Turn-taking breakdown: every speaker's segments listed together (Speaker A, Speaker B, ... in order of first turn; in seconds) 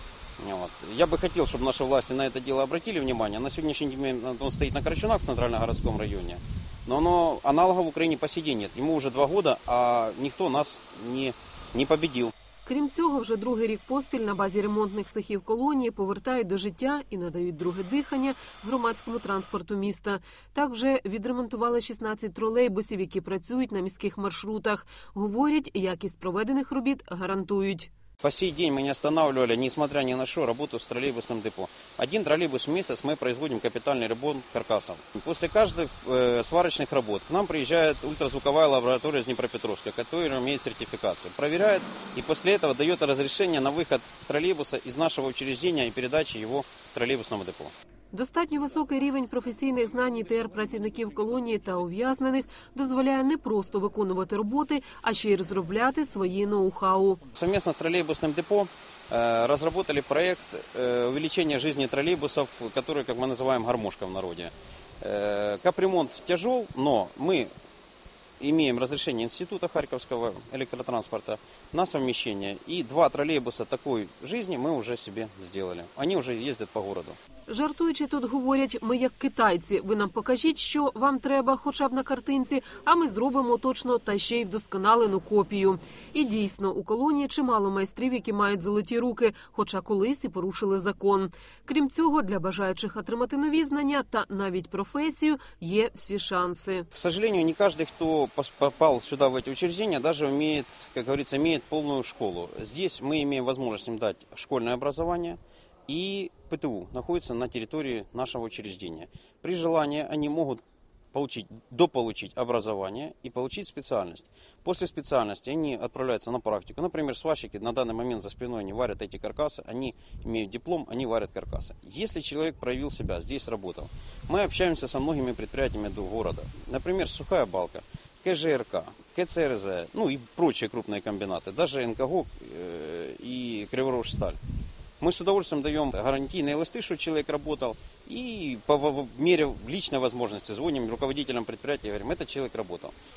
Speaker A: 0.4-12.3, 28.2-47.7, 57.3-67.5, 68.4-77.2, 96.9-110.6, 111.1-134.4, 135.0-142.9
Speaker B: 12.7-27.9, 48.1-57.2, 77.5-96.9